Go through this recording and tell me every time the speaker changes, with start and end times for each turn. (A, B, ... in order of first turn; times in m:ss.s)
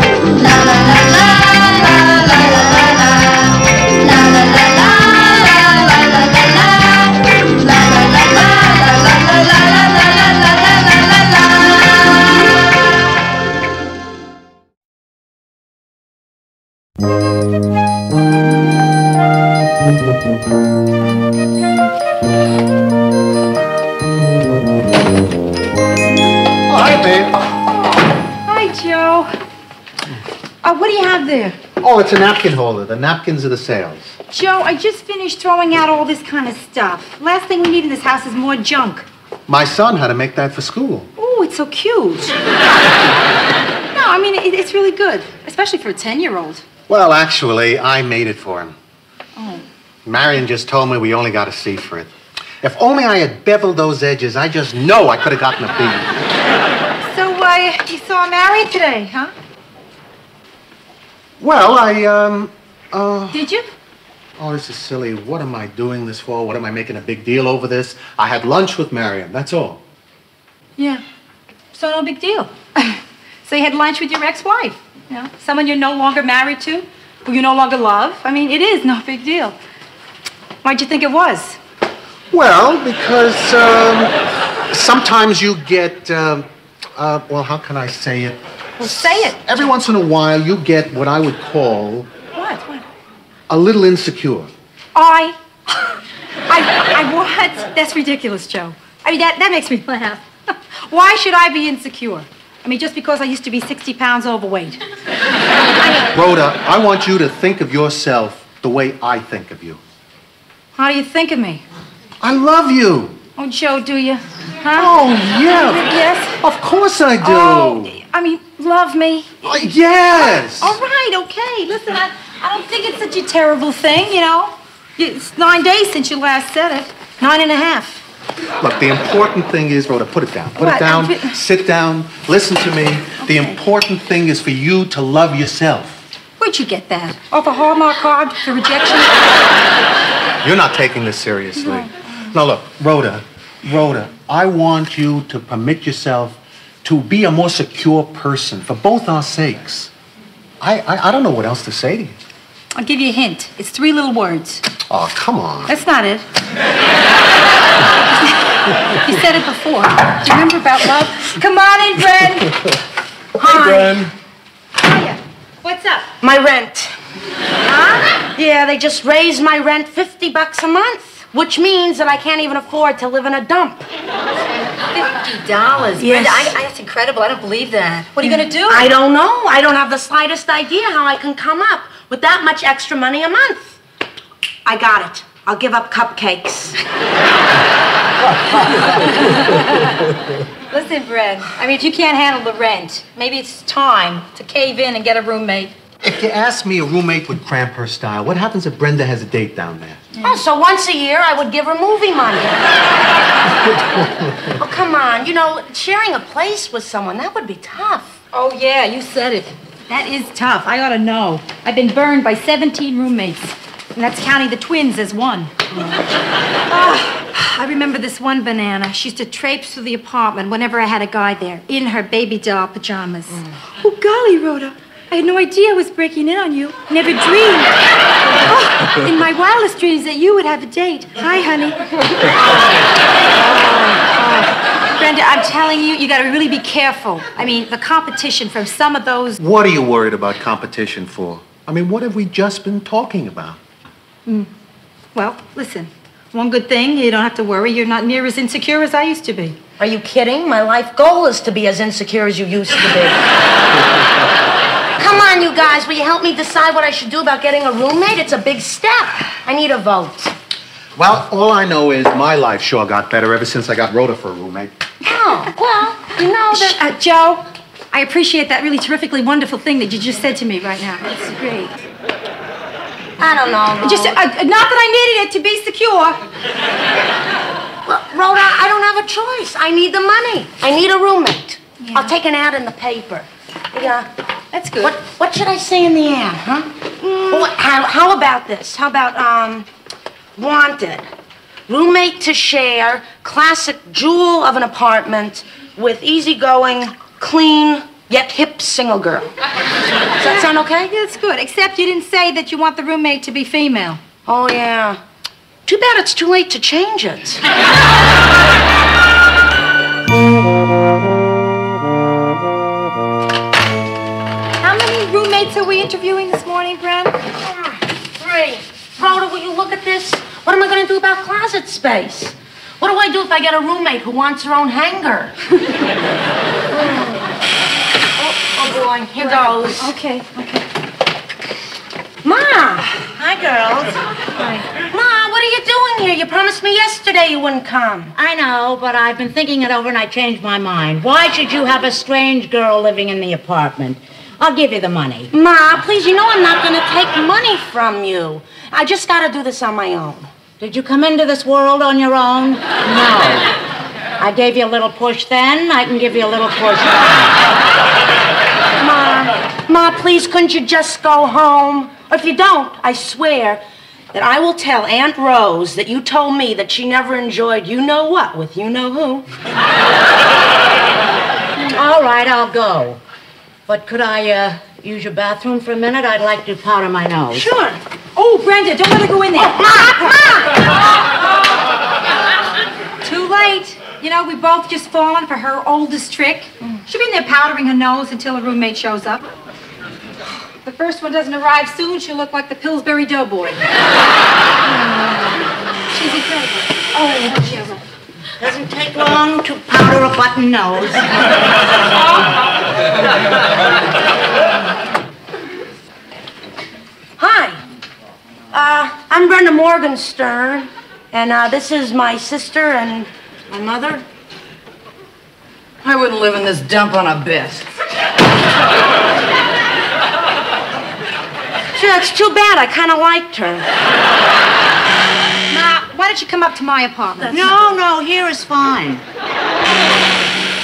0:00.4-0:03.2 A
0:04.1-0:06.3 A
0:07.8-0:09.0 A
0:26.7-0:27.4 B
0:27.7-0:29.3 C
0:30.6-0:31.6 C
0:31.8-0:34.2 B
0:34.3-0:39.1 C
0:39.5-0:41.1 B
0:41.2-0:42.3 C
0:43.9-0:46.6 C
0:46.9-0:48.8 B
0:49.4-0:49.6 C
0:50.0-0:56.1 B
0:57.1-0:59.3 C
1:01.4-1:03.4 B
1:03.3-1:03.7 C
1:04.4-1:09.8 B
1:10.8-1:11.0 C
1:11.7-1:19.6 C
1:20.6-1:21.6 C
1:22.3-1:32.1 B
1:28.8-1:29.4 C
1:32.4-1:32.8 C
1:33.5-1:34.5 B
1:35.0-1:44.8 C
1:45.8-1:46.1 C
1:46.1-1:49.8 B
1:50.8-1:51.6 C
1:52.2-1:53.2 B
1:53.4-1:56.4 C
1:54.7-1:55.9 B
1:56.4-1:58.0 B
1:57.2-2:08.0 C
1:59.4-2:00.8 B
2:08.6-2:16.0 B
2:10.6-2:11.4 C
2:13.2-2:13.6 C
2:16.4-2:19.4 C
2:20.4-2:29.9 B
2:30.6-2:32.2 B
2:32.8-2:34.6 C
2:34.9-2:35.7 B
2:35.7-2:36.2 C
2:38.2-2:42.6 C
2:43.4-2:44.1 D
2:43.5-2:44.1 B
2:44.8-2:46.1 C
2:46.2-2:46.9 D
2:47.6-2:48.1 C
2:48.4-2:53.9 D
2:54.9-2:58.9 C
2:56.0-2:56.5 D
2:58.2-3:03.8 D
3:04.6-3:06.8 D
3:08.6-3:10.1 C
3:10.7-3:15.7 C
3:16.0-3:20.1 B
3:20.2-3:22.6 D
3:23.8-3:24.5 B
3:24.6-3:28.1 D
3:28.3-3:35.5 C
3:36.7-3:47.8 C
3:48.4-3:51.8 C
3:53.4-3:59.4 C
3:59.4-4:03.6 B
4:05.1-4:09.6 C
4:09.8-4:13.2 D
4:15.0-4:20.3 D
4:21.0-4:24.7 B
4:25.0-4:26.8 D
4:26.5-4:31.7 C
4:33.2-4:34.2 D
4:33.8-4:36.2 C
4:37.8-4:44.1 D
4:41.8-4:42.1 C
4:44.5-4:45.0 C
4:44.8-4:49.7 D
4:50.4-4:51.1 D
4:51.7-4:59.3 D
5:00.2-5:00.9 D
5:00.3-5:04.0 C
5:04.3-5:05.0 D
5:05.7-5:07.4 D
5:14.6-5:17.2 C
5:17.4-5:25.4 D
5:28.2-5:30.0 D
5:29.2-5:30.6 C
5:32.2-5:34.0 D
5:34.4-5:34.6 C
5:34.9-5:38.1 D
5:38.2-5:45.3 E
5:45.3-5:50.3 D
5:50.6-5:53.6 E
5:54.2-5:57.4 E
5:58.8-6:03.6 D
6:04.1-6:09.3 D
6:11.6-6:13.0 E
6:13.7-6:17.5 E
6:17.3-6:17.8 D
6:18.2-6:20.4 C
6:19.4-6:20.6 D
6:23.0-6:29.2 C
6:30.6-6:33.6 C
6:34.7-6:37.8 C
6:38.4-6:41.4 E
6:47.2-6:47.6 D
6:48.5-6:54.0 D
6:55.8-6:57.7 A
7:01.8-7:03.7 D
7:05.5-7:07.5 C
7:07.3-7:09.0 E